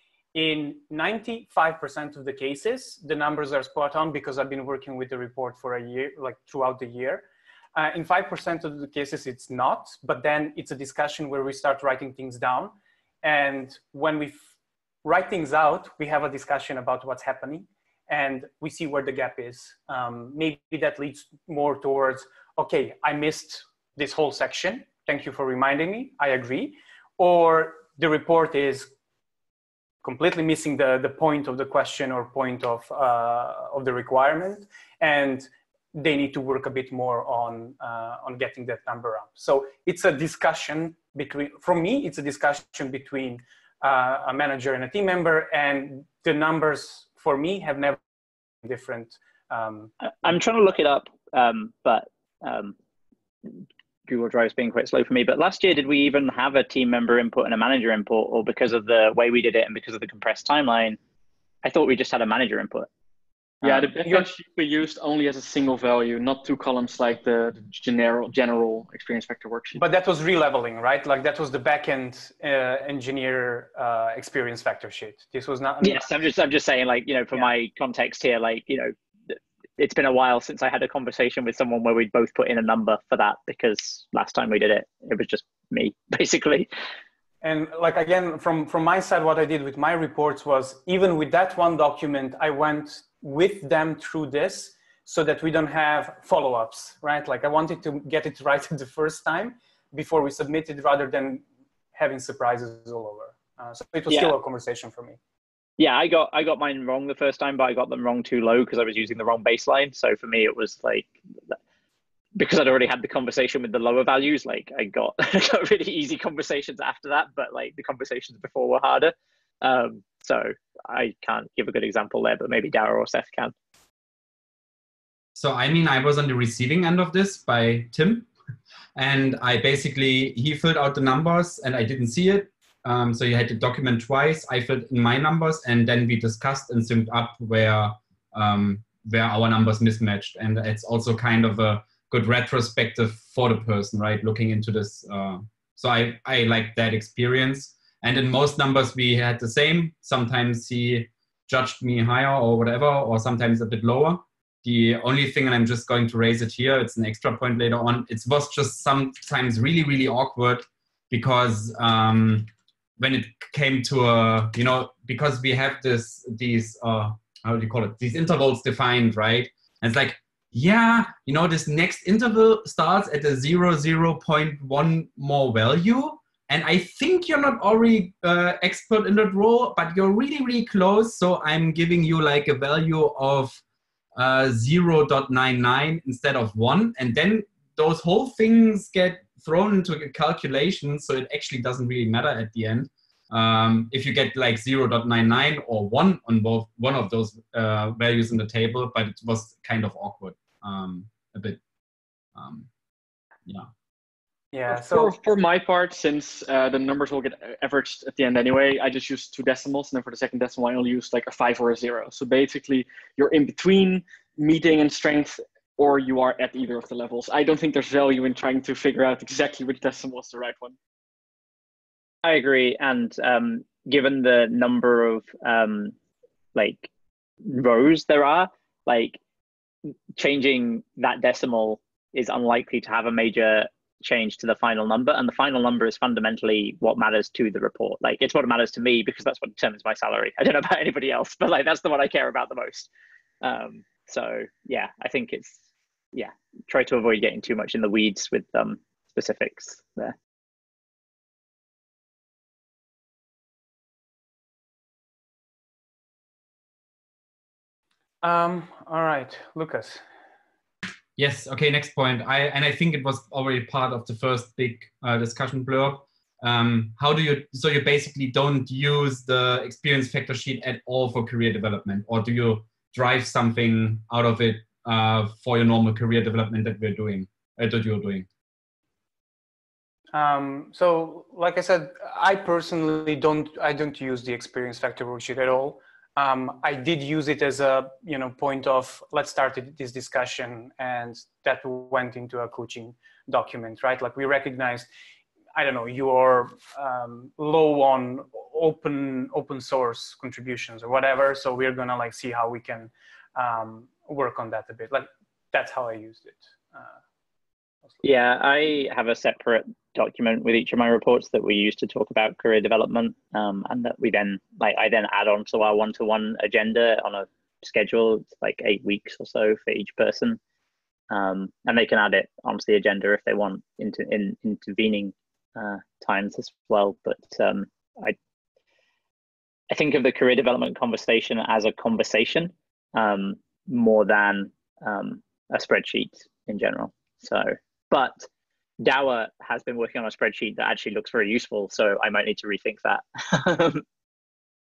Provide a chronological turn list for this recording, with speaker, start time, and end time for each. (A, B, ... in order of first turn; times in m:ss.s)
0:00.4-0:14.4 A
0:15.0-0:28.9 A
0:30.0-0:48.0 A
0:48.6-0:49.9 A
0:50.0-0:52.8 B
0:54.1-1:01.0 B
1:01.6-1:02.9 B
1:03.6-1:03.9 B
1:03.6-1:09.8 C
1:09.8-1:16.1 A
1:15.8-1:26.7 B
1:27.4-1:41.4 A
1:42.0-1:45.2 A
1:45.8-1:51.6 B
1:52.4-2:03.5 B
2:05.4-2:08.3 D
2:09.0-3:03.6 D
3:04.2-3:21.6 D
3:22.4-3:22.7 D
3:24.5-3:25.1 A
3:24.7-3:40.8 C
3:42.2-3:46.0 B
3:46.6-3:46.9 B
3:47.4-3:49.2 B
3:50.2-4:02.9 B
4:03.4-4:05.6 B
4:06.1-4:10.2 B
4:18.2-4:20.0 A
4:21.2-4:38.3 D
4:40.1-4:54.9 A
4:55.6-5:07.0 A
5:08.0-5:20.4 B
5:21.1-5:28.2 B
5:29.7-5:38.3 B
5:38.8-5:43.8 B